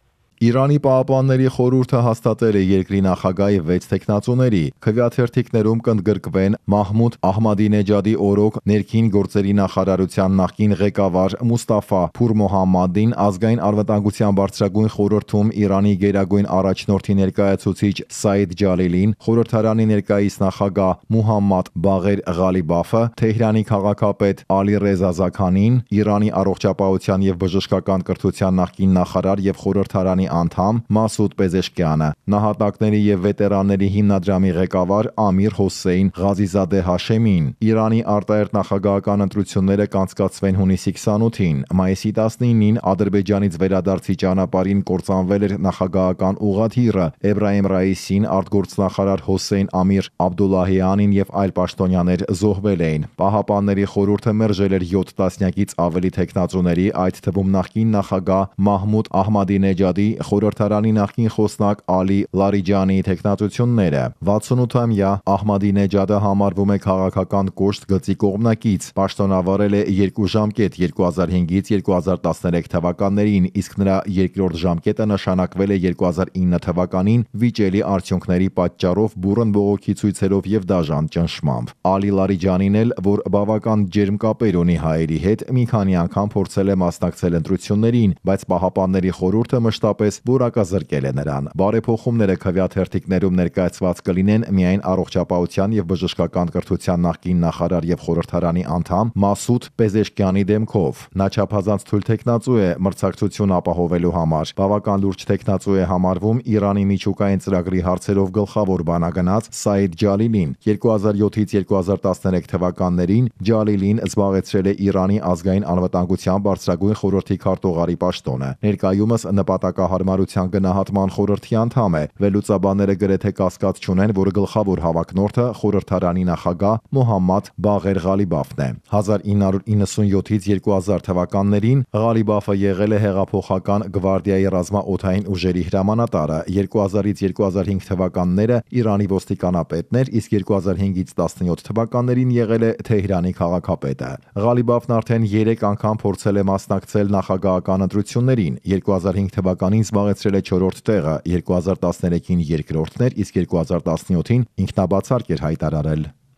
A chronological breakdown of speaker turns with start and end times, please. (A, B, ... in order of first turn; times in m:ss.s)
0:00.4-2:36.1 A